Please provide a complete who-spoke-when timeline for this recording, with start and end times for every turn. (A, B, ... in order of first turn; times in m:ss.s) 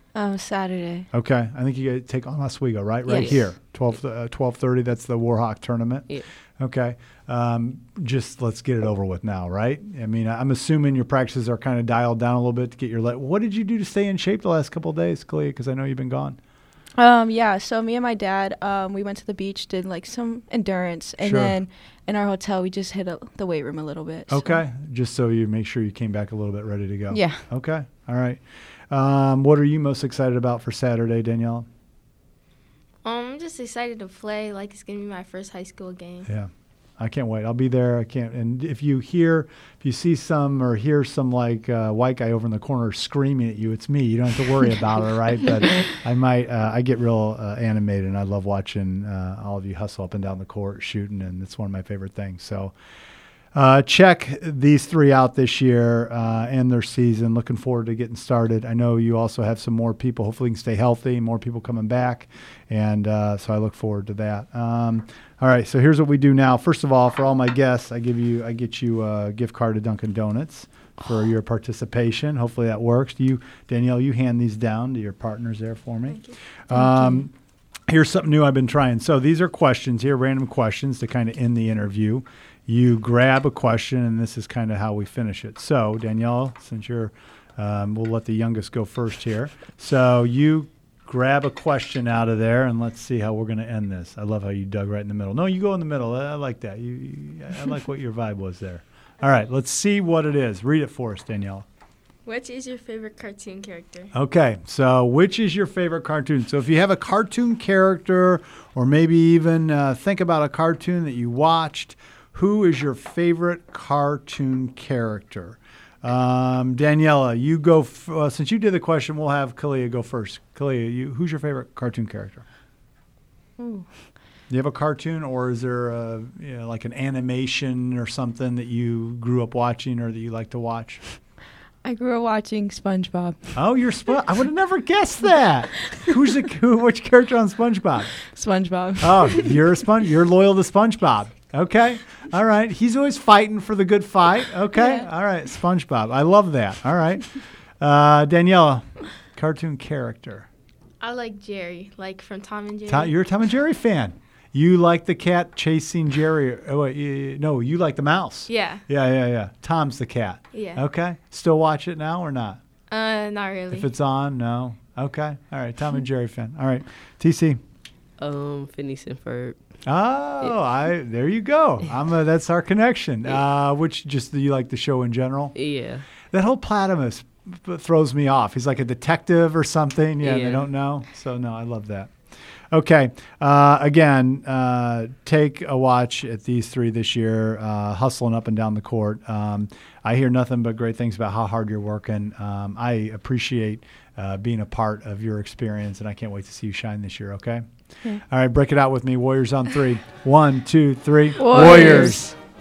0:00.1-0:01.1 A
0:01.1-0:16.4 B
0:03.1-0:03.4 A
0:03.1-0:04.0 C
0:17.0-0:24.6 A
0:21.2-0:21.6 B
0:24.3-0:31.7 B
0:27.1-0:27.4 A
0:33.0-0:36.3 D
0:36.3-0:52.7 B
0:53.5-1:17.3 B
1:16.1-1:16.4 D
1:16.7-1:17.3 A
1:17.9-1:41.6 B
1:42.2-1:44.1 D
1:44.1-2:02.4 B
2:03.6-2:03.9 A
2:04.5-2:11.0 B
2:11.8-2:13.6 A
2:13.6-2:18.2 B
2:18.3-2:19.6 A
2:19.0-2:30.5 B
2:24.7-2:25.1 A
2:31.0-2:33.2 D
2:32.9-2:42.6 B
2:38.5-2:38.8 D
2:40.5-2:40.8 D
2:42.9-2:43.9 D
2:43.7-2:47.6 B
2:48.2-2:49.6 C
2:49.9-2:55.6 B
2:55.6-2:56.0 C
2:56.3-3:02.1 B
3:00.2-3:00.7 C
3:02.7-3:17.6 B
3:18.3-3:22.4 B
3:21.4-3:22.3 A
3:21.7-3:22.1 D